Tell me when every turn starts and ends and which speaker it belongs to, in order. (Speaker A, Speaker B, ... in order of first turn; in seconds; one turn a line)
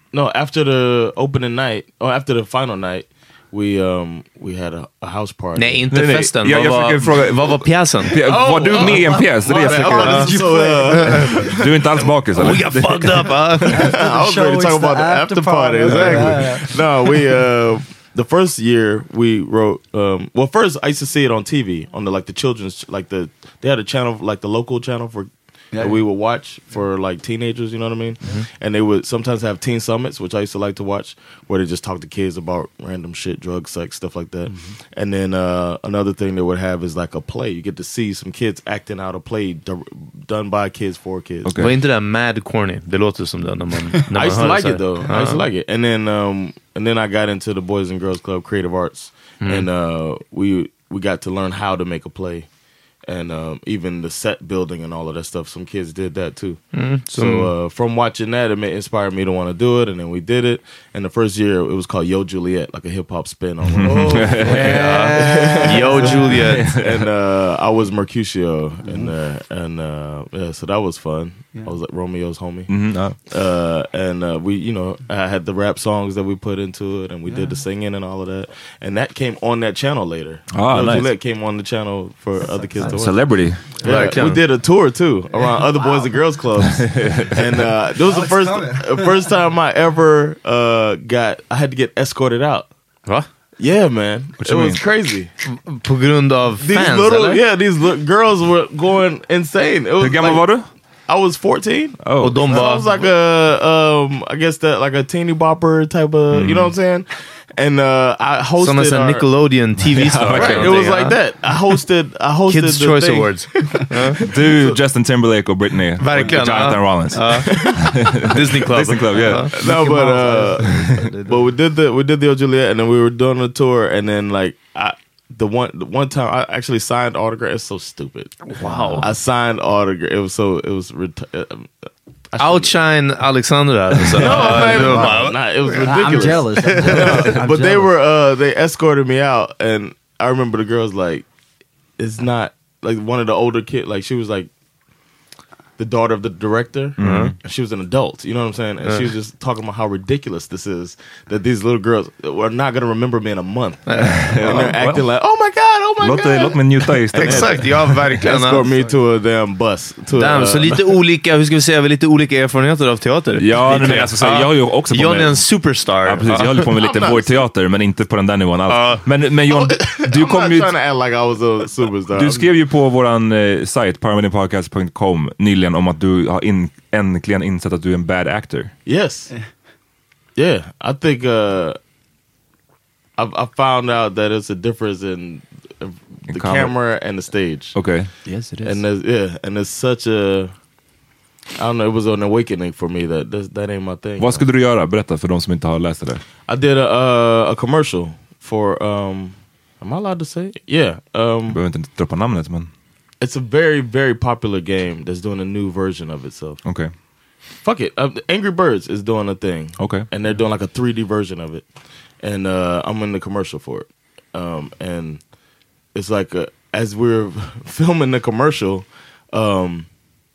Speaker A: 0.1-5.9
Speaker B: 5.6-8.5
Speaker C: 5.9-10.5
Speaker A: 8.2-11.8
Speaker D: 8.8-11.5
Speaker B: 10.0-10.8
Speaker C: 11.1-13.9
Speaker B: 12.4-13.8
Speaker D: 13.7-17.1
Speaker A: 13.8-41.5
Speaker D: 25.7-26.0
Speaker D: 34.5-34.8
Speaker C: 41.4-41.7
Speaker B: 41.6-45.4
Speaker A: 44.1-92.7
Speaker B: 49.4-49.7
Speaker B: 56.7-57.5
Speaker C: 63.6-65.5
Speaker D: 64.1-66.5
Speaker B: 64.3-66.7
Speaker C: 66.4-67.0
Speaker D: 68.8-69.2
Speaker C: 72.7-73.2
Speaker D: 77.3-77.6
Speaker C: 80.5-81.1
Speaker D: 82.5-83.3
Speaker C: 82.8-83.7
Speaker B: 83.8-84.4
Speaker D: 85.4-86.2
Speaker C: 87.0-87.4
Speaker D: 88.0-89.3
Speaker A: 93.6-95.3
Speaker C: 94.4-94.8
Speaker B: 95.5-97.4
Speaker A: 96.6-109.3
Speaker C: 100.0-100.7
Speaker C: 102.0-102.5
Speaker B: 102.2-102.9
Speaker C: 106.3-106.8
Speaker B: 108.6-111.2
Speaker C: 109.9-110.9
Speaker A: 110.4-114.8
Speaker B: 112.5-114.2
Speaker C: 114.3-119.6
Speaker B: 116.0-119.5
Speaker D: 119.3-121.5
Speaker A: 119.6-132.8
Speaker B: 128.5-129.1
Speaker D: 128.6-129.1
Speaker B: 132.4-137.1
Speaker D: 134.2-137.9
Speaker A: 134.2-141.3
Speaker A: 142.0-144.5
Speaker A: 145.8-161.0
Speaker C: 147.0-147.4
Speaker B: 147.0-147.3
Speaker B: 148.8-149.1
Speaker B: 153.9-154.2
Speaker C: 154.0-155.1
Speaker C: 156.0-158.1
Speaker B: 157.2-158.6
Speaker D: 158.6-158.9
Speaker B: 160.1-166.7
Speaker C: 163.4-170.8
Speaker A: 166.8-167.3
Speaker B: 168.7-169.1
Speaker A: 169.5-172.5
Speaker C: 172.1-178.7
Speaker A: 178.8-179.3
Speaker A: 180.4-181.8
Speaker A: 183.2-187.9
Speaker C: 186.3-186.8
Speaker C: 187.7-188.1
Speaker D: 188.2-188.8
Speaker A: 188.6-190.6
Speaker A: 191.6-194.5
Speaker C: 194.2-196.2
Speaker A: 196.5-201.6
Speaker C: 201.5-202.7
Speaker A: 203.2-206.6
Speaker C: 206.6-206.9
Speaker A: 207.6-215.3
Speaker C: 209.8-210.1
Speaker A: 215.9-219.9